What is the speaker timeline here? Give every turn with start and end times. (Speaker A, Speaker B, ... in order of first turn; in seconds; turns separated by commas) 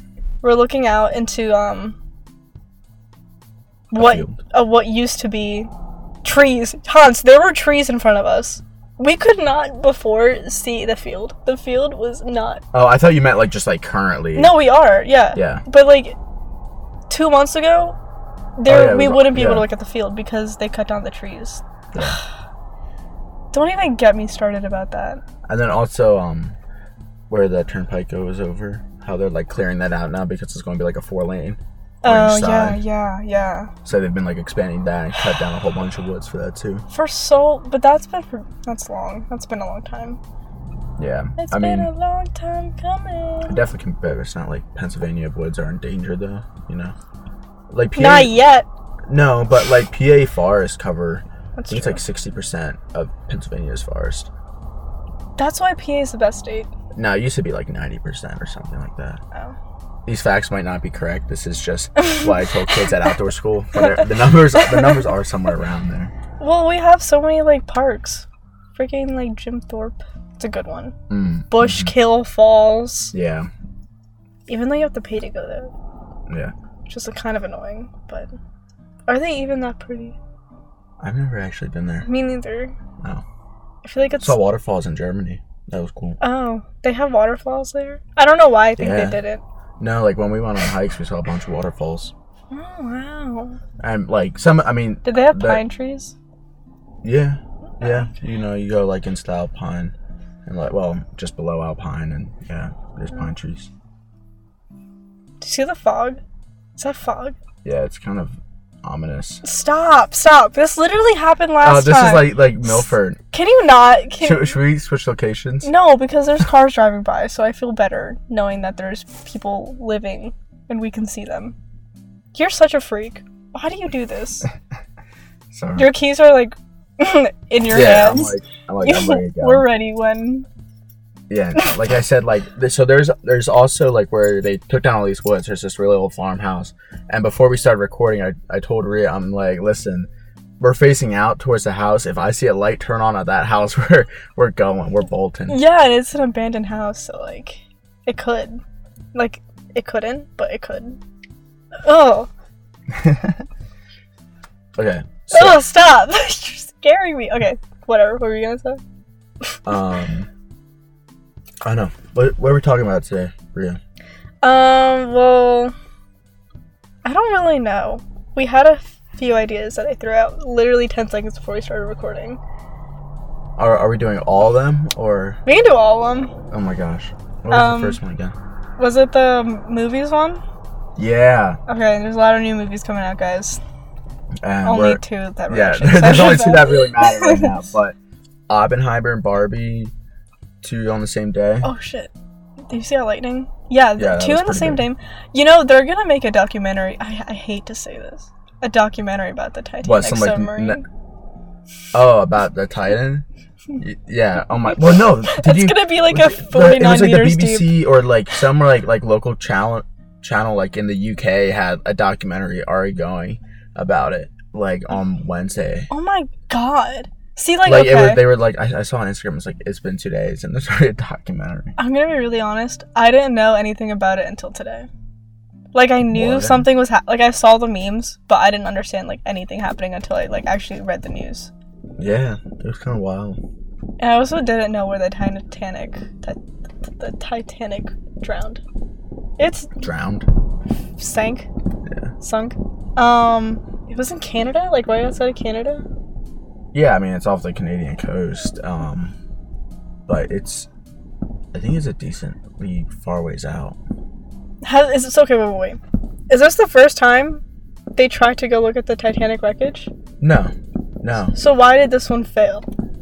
Speaker A: 0.4-2.0, Speaker A: 3.9-5.7, Speaker B: 4.0-4.4, Speaker A: 6.2-12.6, Speaker B: 12.7-14.6, Speaker A: 14.4-16.2, Speaker B: 15.3-15.6, Speaker A: 17.1-18.0, Speaker A: 18.6-22.2, Speaker B: 18.7-19.7, Speaker B: 21.9-22.2, Speaker A: 23.5-25.2, Speaker B: 25.5-26.6, Speaker B: 27.3-32.8, Speaker A: 32.0-33.7, Speaker B: 33.9-36.9, Speaker A: 36.9-40.2, Speaker B: 41.0-41.9, Speaker A: 41.4-43.6, Speaker B: 43.5-46.9, Speaker B: 47.7-48.4, Speaker A: 48.0-48.7, Speaker B: 49.1-54.3, Speaker A: 51.6-52.0, Speaker A: 55.4-56.7, Speaker B: 56.9-59.2, Speaker B: 60.1-66.1, Speaker A: 66.4-71.0, Speaker B: 71.1-71.9, Speaker A: 71.5-73.2, Speaker B: 73.1-73.5, Speaker A: 74.5-75.7, Speaker B: 76.3-76.5, Speaker A: 76.9-78.3, Speaker A: 79.1-80.2, Speaker B: 81.0-82.1, Speaker A: 82.0-82.8, Speaker A: 83.8-84.4, Speaker B: 84.2-86.2, Speaker A: 86.2-89.4, Speaker B: 88.8-89.2, Speaker B: 89.8-92.1, Speaker A: 92.5-93.6, Speaker B: 93.8-95.6, Speaker A: 95.0-96.1, Speaker B: 97.0-99.9, Speaker A: 97.8-98.1, Speaker B: 100.5-103.7, Speaker A: 105.4-106.2, Speaker A: 106.8-107.4, Speaker B: 107.6-109.4, Speaker A: 109.4-112.8, Speaker B: 111.6-113.2, Speaker A: 113.3-114.6, Speaker B: 114.2-115.7, Speaker A: 115.6-121.6, Speaker A: 122.3-124.5, Speaker B: 125.5-125.9, Speaker A: 125.8-130.5, Speaker B: 127.7-129.7, Speaker B: 131.3-140.1, Speaker B: 140.6-145.6, Speaker A: 145.5-148.6, Speaker A: 149.1-151.0, Speaker A: 151.8-152.3, Speaker B: 152.9-153.4, Speaker B: 154.8-155.6, Speaker A: 155.3-158.8, Speaker B: 159.7-160.3, Speaker B: 161.6-163.8, Speaker A: 164.4-165.7, Speaker A: 167.0-172.4, Speaker B: 173.6-175.4, Speaker A: 175.5-176.3, Speaker B: 176.5-178.4, Speaker A: 177.5-178.0, Speaker A: 178.8-180.4, Speaker B: 181.0-181.6, Speaker A: 181.7-183.6, Speaker B: 184.4-187.9, Speaker A: 184.6-187.6, Speaker B: 188.5-189.9, Speaker B: 190.6-191.7, Speaker A: 191.6-192.1, Speaker A: 192.7-200.8, Speaker B: 194.0-194.9, Speaker B: 199.8-200.8, Speaker B: 201.9-203.2, Speaker B: 203.8-215.9, Speaker A: 205.0-207.8, Speaker A: 215.9-218.4, Speaker B: 217.6-221.8, Speaker A: 221.8-224.9, Speaker A: 225.7-231.5, Speaker B: 226.1-226.7, Speaker B: 232.0-233.4, Speaker A: 234.0-238.6, Speaker A: 239.4-239.7, Speaker B: 239.8-240.3, Speaker A: 241.0-241.5, Speaker B: 241.9-242.1, Speaker A: 242.2-245.9, Speaker B: 246.7-249.2, Speaker B: 250.1-250.7, Speaker B: 251.5-253.8, Speaker A: 254.6-257.4, Speaker A: 258.0-259.9, Speaker B: 260.2-261.4, Speaker A: 261.4-262.7